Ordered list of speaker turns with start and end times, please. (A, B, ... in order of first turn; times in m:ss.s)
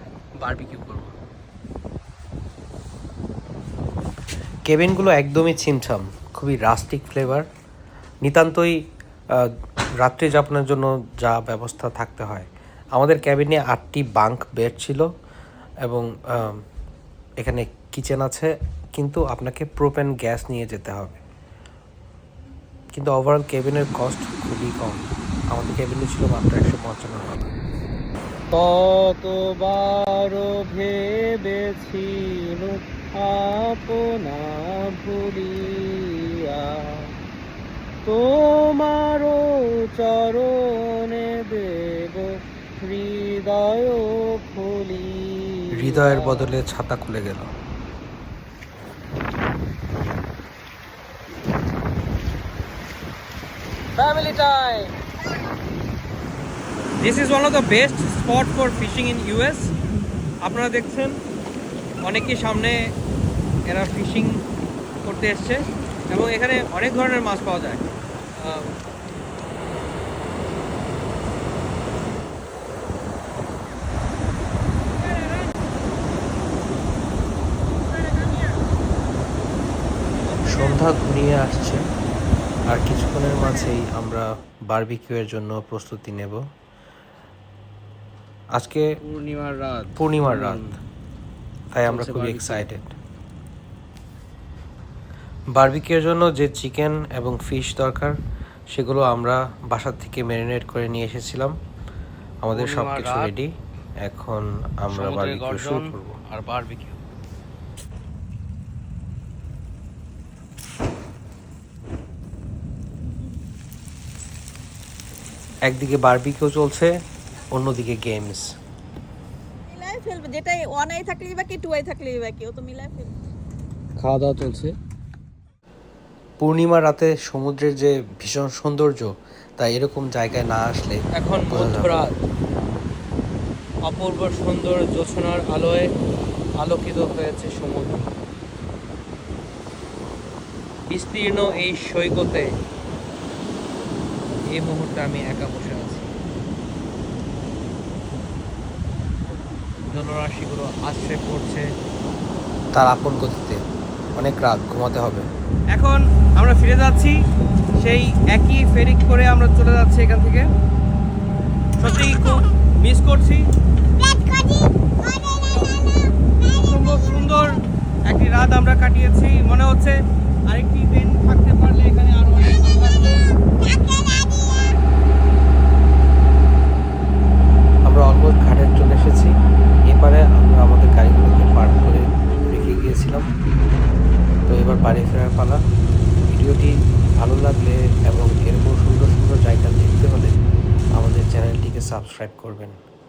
0:00.4-0:01.1 A
0:04.7-0:07.4 B
0:08.2-0:08.8 B
0:10.0-0:15.0 B
0:15.8-0:16.6 B
0:17.4-0:21.1 B
0:22.9-0:27.5 B
0:28.5-0:37.1 A
0:38.0-0:46.5 A
0:45.7-0:47.5 B
0:54.0-0:54.9 A
0:57.0-0:59.7 A
1:00.4-1:01.1 A
1:02.0-1:02.8 A
1:03.7-1:04.4 A
1:05.0-1:07.8 A
1:08.4-1:08.6 A
1:18.0-1:18.5 A
1:20.3-1:20.7 A
1:20.5-1:21.8 B
1:22.7-1:26.4 B
1:28.5-1:28.8 B
1:29.0-1:30.8 A
1:30.0-1:30.7 B
1:31.7-1:32.9 B
1:31.8-1:32.6 A
1:35.5-1:38.1 B
1:38.7-1:41.5 B
1:42.4-1:43.5 B
1:42.5-1:43.3 A
1:44.0-1:46.2 B
1:44.9-1:47.0 A
1:55.6-1:56.9 B
1:57.5-1:58.5 B
1:59.7-2:03.1 C
2:04.0-2:04.7 A
2:06.4-2:11.9 B
2:11.1-2:12.1 A
2:13.8-2:15.9 A
2:16.6-2:18.1 A
2:20.9-2:22.5 A
2:24.4-2:26.1 A
2:29.9-2:31.6 A
2:32.7-2:33.6 B
2:34.2-2:35.2 B
2:35.7-2:37.2 A
2:37.8-2:40.4 A
2:41.8-2:43.4 A
2:45.4-2:45.7 A
2:46.5-2:47.5 A
2:48.1-2:50.0 A
2:50.5-2:53.3 A
2:57.8-2:59.3 B
2:59.9-3:03.2 B
3:04.5-3:05.6 B
3:06.3-3:10.4 B
3:11.0-3:12.8 B